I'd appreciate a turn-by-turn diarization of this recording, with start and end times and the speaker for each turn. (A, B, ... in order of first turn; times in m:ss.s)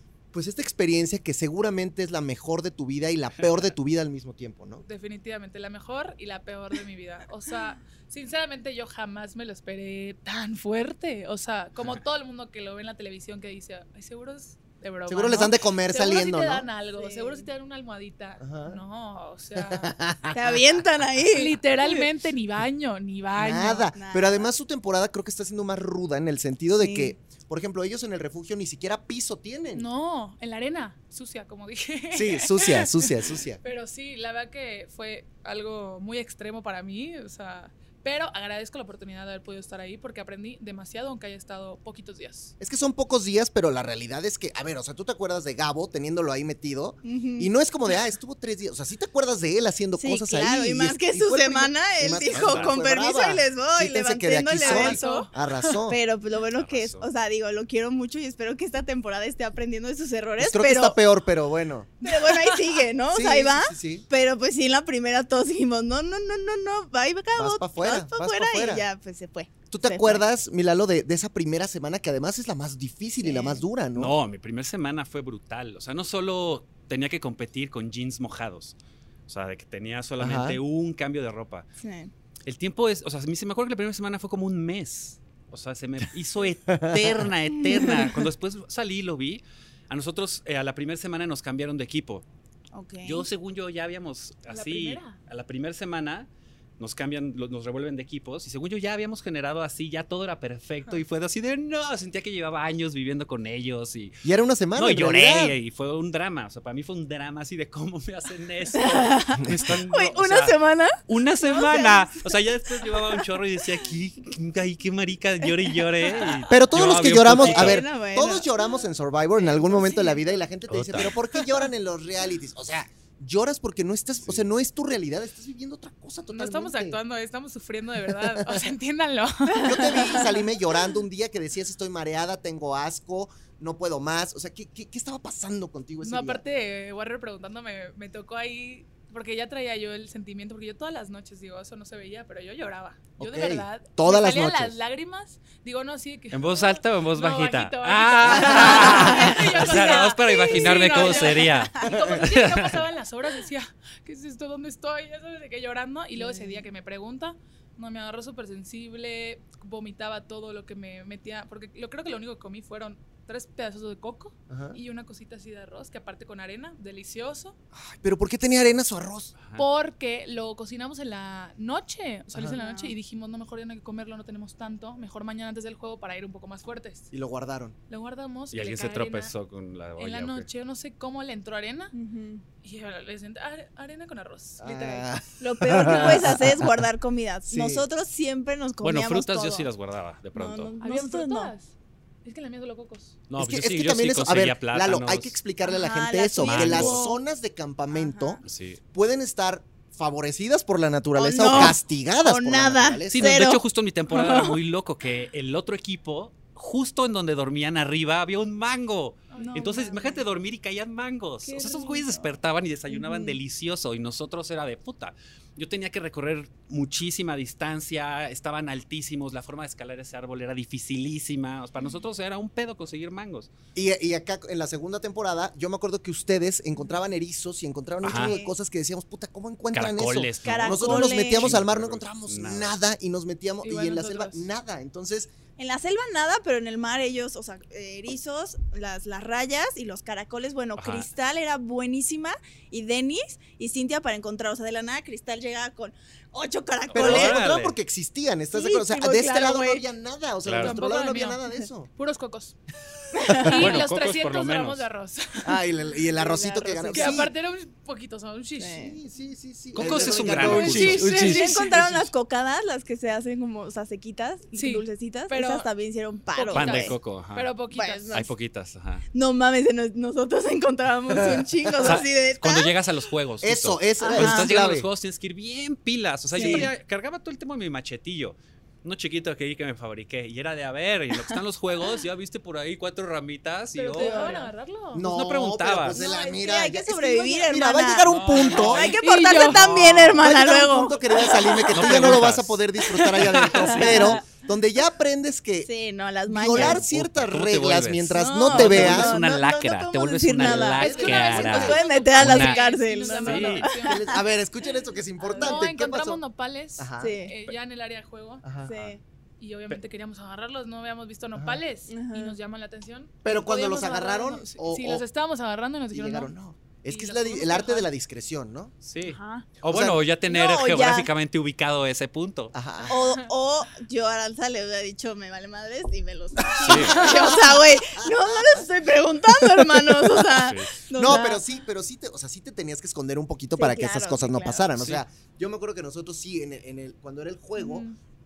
0:00.3-0:04.8 A
0:04.9-0:19.9 B
0:15.1-0:16.7 A
0:17.0-0:17.5 C
0:18.4-0:18.8 A
0:19.6-0:20.8 A
0:20.3-0:22.1 C
0:21.3-0:23.9 B
0:23.4-0:29.9 A
0:23.9-0:24.5 C
0:26.8-0:27.1 C
0:29.8-0:42.5 B
0:32.1-0:33.6 A
0:42.6-0:56.0 A
0:47.0-0:47.5 C
0:50.0-0:55.3 C
0:52.3-0:52.8 D
0:54.6-0:55.3 B
0:55.9-1:01.0 C
0:56.6-0:57.1 D
1:00.4-1:01.9 A
1:02.0-1:02.8 B
1:02.0-1:10.2 C
1:03.1-1:04.1 A
1:07.4-1:08.9 A
1:09.7-1:14.1 A
1:13.2-1:13.6 C
1:14.0-1:18.8 D
1:19.3-1:21.7 D
1:20.2-1:20.6 A
1:21.8-1:22.1 C
1:22.4-1:32.2 D
1:26.7-1:27.0 A
1:27.7-1:28.1 C
1:32.7-1:33.3 C
1:33.0-1:36.3 D
1:34.5-1:35.2 B
1:36.8-1:44.2 D
1:44.2-1:45.6 A
1:44.8-1:50.6 D
1:48.8-1:53.3 C
1:51.1-1:57.8 D
1:55.4-1:56.5 C
1:56.5-2:07.0 A
1:57.3-1:58.8 C
1:59.4-2:00.4 C
2:00.7-2:01.1 D
2:01.3-2:01.7 C
2:06.3-2:10.2 B
2:08.2-2:08.7 A
2:09.5-2:10.4 C
2:09.6-2:16.4 A
2:16.0-2:47.6 B
2:23.2-2:24.8 A
2:26.3-2:32.8 D
2:28.3-2:32.0 C
2:36.2-2:36.7 C
2:44.5-2:44.8 A
2:47.9-2:49.4 A
2:49.4-2:49.7 D
2:49.6-2:57.1 B
2:52.5-2:53.0 C
2:57.1-2:57.8 A
2:57.9-2:59.3 B
2:58.5-3:00.5 D
3:00.0-3:01.9 B
3:01.9-3:02.4 C
3:02.6-3:05.1 B
3:04.6-3:06.8 A
3:05.4-3:09.7 C
3:07.5-3:07.8 A
3:08.8-3:10.7 D
3:10.4-3:11.5 C
3:10.8-3:11.7 B
3:12.2-3:13.2 B
3:13.3-3:15.4 D
3:13.4-3:18.4 A
3:15.6-3:17.0 C
3:16.4-3:17.0 D
3:16.8-3:17.2 B
3:17.9-3:18.4 C
3:18.4-3:18.8 D
3:18.9-3:23.4 A
3:21.2-3:24.6 C
3:21.5-3:21.8 D
3:23.1-3:43.5 D
3:29.3-3:30.2 B
3:29.4-3:30.0 C
3:31.4-3:32.2 B
3:32.9-3:33.4 C
3:43.8-3:55.3 A
3:48.0-3:48.4 D
3:48.0-3:48.6 C
3:49.7-3:52.8 D
3:50.4-3:51.6 C
3:53.6-3:54.5 B
3:55.6-4:07.4 C
4:00.8-4:01.1 D
4:06.8-4:07.8 D
4:06.9-4:11.9 A
4:08.5-4:09.8 C
4:10.4-4:10.8 D
4:10.6-4:12.6 B
4:13.1-4:13.7 C
4:13.2-4:13.6 A
4:13.4-4:15.6 B
4:13.6-4:14.9 D
4:15.4-4:17.3 A
4:16.1-4:17.3 C
4:16.9-4:18.9 B
4:18.6-4:19.0 C
4:18.8-4:21.1 A
4:19.8-4:22.1 D
4:19.9-4:27.0 C
4:20.2-4:21.8 B
4:24.6-4:25.7 B
4:26.4-4:28.2 B
4:26.5-4:27.5 D
4:27.7-4:28.3 C
4:28.1-4:29.0 D
4:29.1-4:32.8 C
4:31.2-4:32.0 A
4:31.8-4:44.3 D
4:33.4-4:34.9 A
4:34.0-4:34.6 C
4:36.3-4:36.7 C
4:36.4-4:36.7 B
4:43.7-4:45.1 B
4:44.0-4:44.5 C
4:44.9-4:48.9 A
4:45.0-4:46.0 D
4:45.9-4:52.2 C
4:48.0-4:50.3 D
4:49.0-4:49.7 B
4:50.2-4:55.7 A
4:51.7-4:54.2 D
4:53.6-4:54.2 C
4:55.6-4:56.8 C
4:56.3-4:59.2 A
4:56.5-5:03.7 D
4:58.2-5:04.2 C
5:00.4-5:01.7 A
5:00.8-5:04.2 B
5:03.8-5:06.2 A
5:05.2-5:05.6 C
5:05.4-5:08.4 B
5:06.8-5:07.1 A
5:07.0-5:07.3 C
5:08.4-5:08.7 A
5:08.6-5:09.0 C
5:09.4-5:16.3 B
5:11.4-5:11.6 A
5:11.9-5:12.4 C
5:13.2-5:15.0 A
5:15.9-5:18.7 A
5:16.9-5:17.9 B
5:18.8-5:22.6 D
5:19.0-5:19.5 C
5:19.7-5:20.0 A
5:20.3-5:21.1 C
5:22.5-5:22.9 A
5:22.9-5:31.4 C
5:22.9-5:23.3 B
5:26.4-5:28.7 A
5:26.6-5:27.1 D
5:27.0-5:27.4 B
5:30.4-5:30.7 D
5:30.9-5:37.9 A
5:33.6-5:34.7 C
5:34.8-5:35.0 D
5:37.6-5:38.0 B